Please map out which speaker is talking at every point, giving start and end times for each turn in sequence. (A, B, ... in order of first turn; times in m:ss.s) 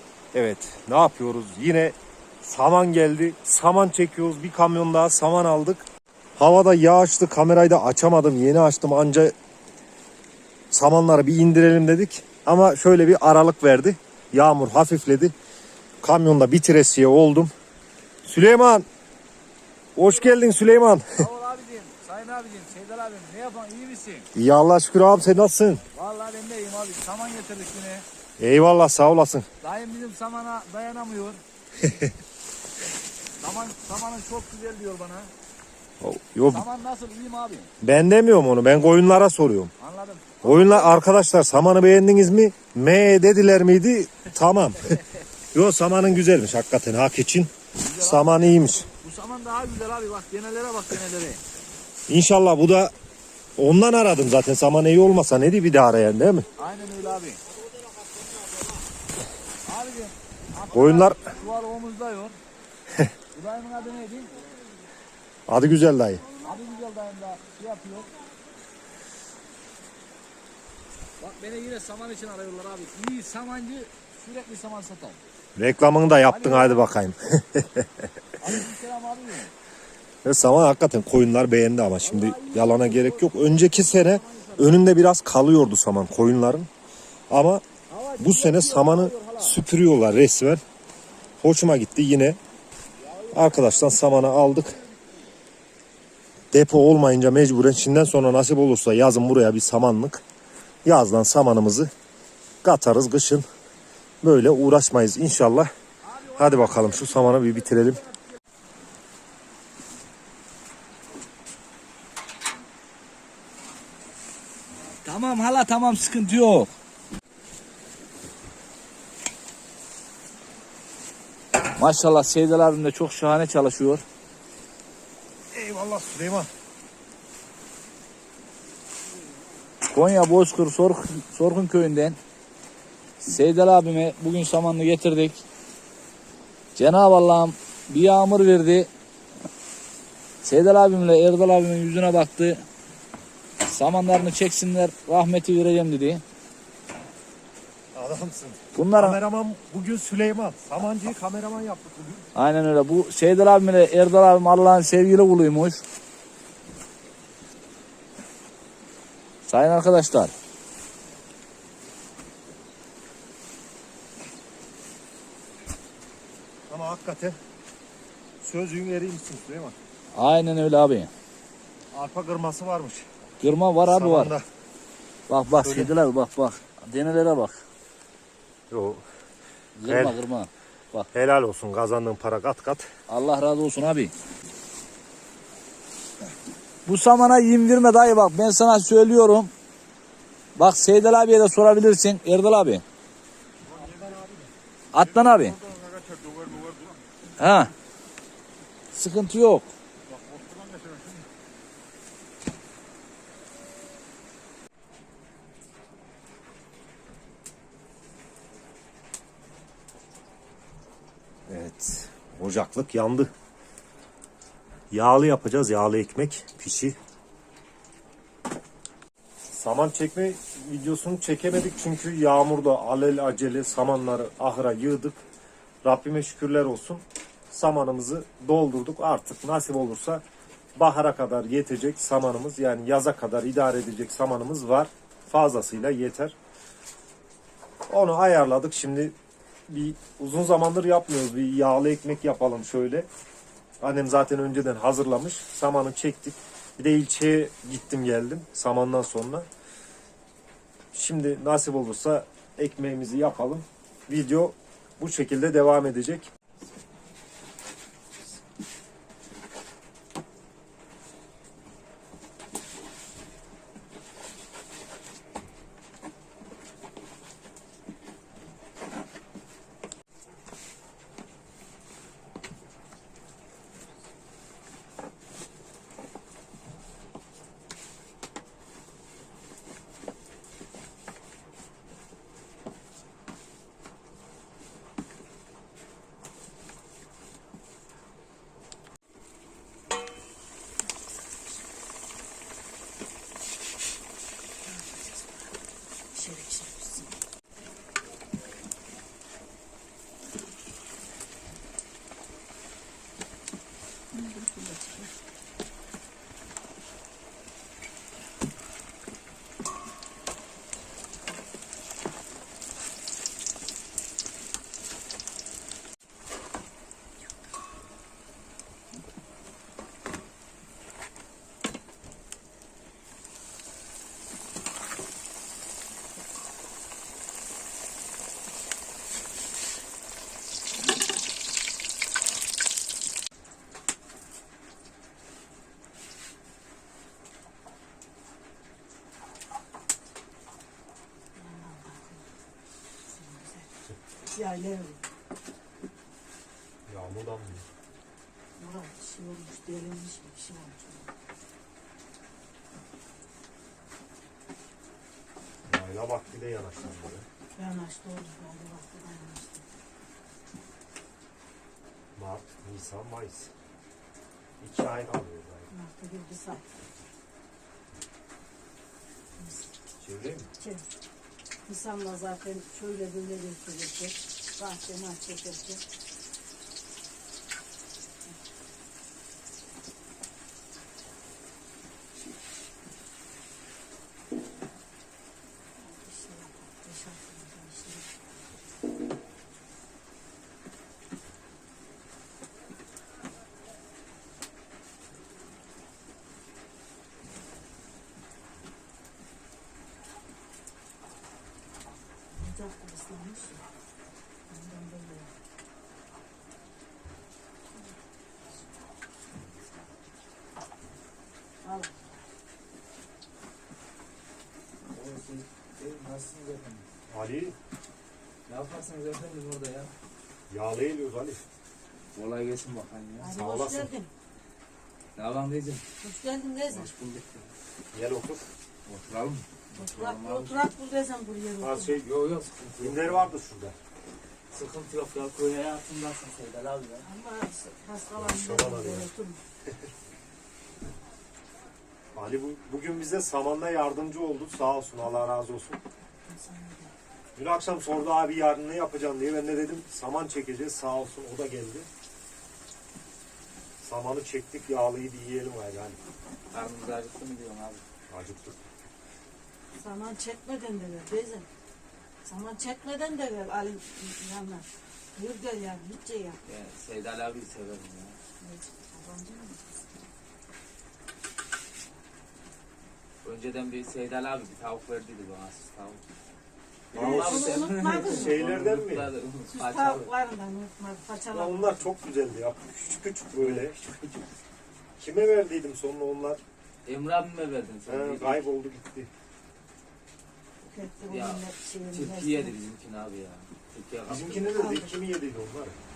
0:00.3-0:09.3 A
0:10.7-0:15.3 A
0:16.0-0:17.5 A
0:18.2-0:18.9 A
0:20.0-0:21.2 A
0:20.0-0:20.4 B
0:21.1-0:24.3 B
0:24.3-0:25.8 A
0:25.9-0:28.0 B
0:28.4-0:29.5 A
0:29.6-0:31.4 B
0:33.4-0:35.3 B
0:36.0-0:36.6 A
0:36.5-0:37.7 B
0:37.8-0:39.7 A
0:39.8-0:41.0 B
0:40.4-0:44.9 A
0:45.5-0:48.9 A
0:47.8-0:51.4 B
0:52.1-0:52.9 A
0:53.6-0:56.5 A
0:56.6-0:57.4 B
0:59.6-1:02.4 B
1:00.7-1:01.2 A
1:03.3-1:04.4 B
1:05.5-1:06.2 A
1:06.4-1:08.1 B
1:11.2-1:15.2 B
1:15.6-1:18.0 A
1:16.3-1:16.9 B
1:18.4-1:19.5 B
1:20.2-1:26.7 A
1:22.0-1:24.8 B
1:27.3-1:27.6 A
1:27.9-1:29.6 B
1:28.2-1:30.6 A
1:31.4-1:32.4 A
1:33.0-1:34.3 B
1:33.3-1:34.7 A
1:36.5-1:40.2 A
1:40.8-1:41.9 A
1:42.6-1:43.4 A
1:44.2-1:45.7 A
1:46.1-1:48.2 B
1:46.4-1:48.0 A
1:55.0-1:56.7 B
2:01.8-2:04.0 B
2:05.5-2:06.5 A
2:09.9-2:12.2 B
2:13.2-2:15.4 B
2:16.8-2:18.9 B
2:20.4-2:22.6 B
2:23.7-2:26.2 B
2:27.9-2:32.3 A
2:28.7-2:29.2 B
2:32.3-2:35.8 B
2:39.5-2:40.3 B
2:46.7-2:47.4 A
2:48.4-2:49.8 A
2:50.1-2:51.1 B
2:51.9-2:53.1 A
2:53.4-2:54.3 B
2:53.8-2:54.4 A
2:55.3-2:57.6 B
2:55.6-2:55.9 A
2:58.7-2:59.0 A
2:59.8-3:01.1 B
2:59.9-3:00.2 A
3:01.1-3:02.9 A
3:03.1-3:04.1 B
3:06.8-3:09.5 B
3:10.6-3:12.8 B
3:14.0-3:14.2 C
3:14.9-3:15.6 B
3:17.4-3:17.7 B
3:18.9-3:19.7 B
3:31.5-3:33.3 A
3:34.9-3:37.0 A
3:39.5-3:45.2 A
3:45.8-3:50.2 A
3:50.8-3:56.3 A
3:57.9-3:59.1 A
3:59.7-4:03.1 A
4:03.8-4:09.5 A
4:10.9-4:16.3 A
4:54.6-4:55.6 C
4:56.1-4:57.2 C
5:04.1-5:05.1 C
5:41.3-5:42.2 C
5:43.0-5:43.7 C
5:44.3-5:45.0 C
5:46.9-5:47.7 A
5:48.6-5:51.1 C
5:55.6-5:57.3 A
5:57.5-5:59.6 C
6:02.2-6:03.5 A
6:04.6-6:05.7 A
6:05.7-6:06.6 C
6:09.4-6:09.7 C
6:10.0-6:10.5 A
6:10.6-6:10.8 C
6:11.6-6:15.8 C
6:25.8-6:28.1 C
6:42.3-6:43.6 C
6:44.5-6:45.3 C
6:51.6-6:51.9 C
6:54.9-6:56.8 D
6:57.1-6:57.5 A
6:58.5-6:59.9 D
7:00.5-7:01.4 A
7:02.1-7:03.3 D
7:03.2-7:04.1 C
7:03.3-7:03.9 A
7:05.2-7:05.8 D
7:06.0-7:06.9 C
7:06.7-7:07.5 D
7:07.9-7:08.4 A
7:08.8-7:10.7 D
7:09.8-7:12.0 C
7:11.6-7:12.1 A
7:11.9-7:13.3 D
7:12.8-7:13.8 A
7:14.5-7:17.1 D
7:17.0-7:19.4 C
7:18.2-7:19.1 A
7:22.1-7:25.8 A
7:26.2-7:26.9 C
7:27.4-7:31.9 A
7:33.8-7:36.0 A
7:36.5-7:37.8 D
7:38.1-7:38.6 A
7:39.8-7:41.5 C
7:42.2-7:46.4 C
7:46.4-7:48.2 D
7:48.4-7:49.8 C
7:53.2-7:56.0 D
7:56.9-7:59.1 A
7:56.9-8:00.1 D
7:56.9-7:58.4 C
7:59.5-8:01.8 C
8:01.3-8:03.8 A
8:03.4-8:04.2 D
8:05.0-8:06.4 A
8:06.8-8:08.5 D
8:07.9-8:09.1 A
8:10.6-8:12.5 C
8:11.1-8:14.6 D
8:14.1-8:15.8 A
8:14.5-8:14.9 C